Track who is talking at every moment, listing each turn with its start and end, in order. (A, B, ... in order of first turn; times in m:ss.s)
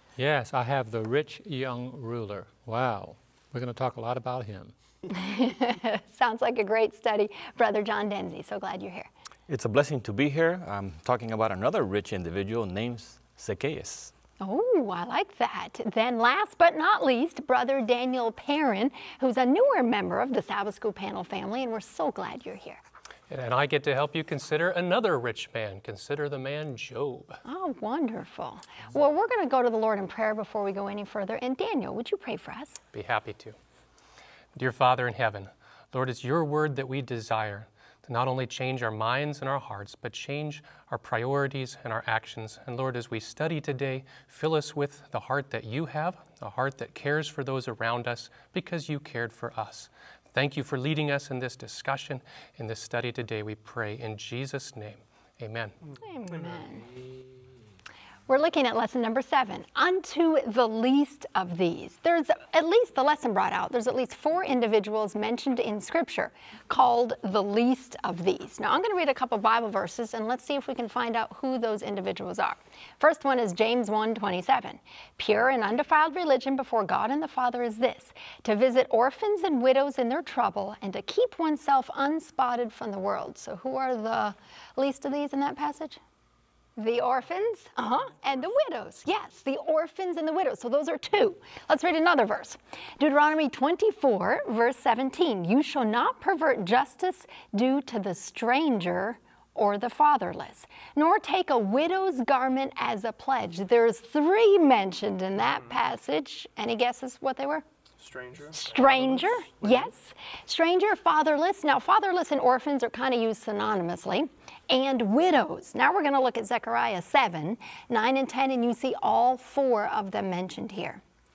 0:00.2-0:04.7 A
0:05.1-0:09.1 B
0:09.5-0:14.1 C
0:14.4-0:22.8 B
0:23.3-0:27.4 D
0:27.4-0:32.8 B
0:32.9-0:33.6 D
0:34.6-0:55.7 D
0:56.0-0:56.9 B
0:58.3-1:26.0 B
1:26.8-1:47.6 B
1:48.1-1:49.2 D
1:48.5-2:01.0 B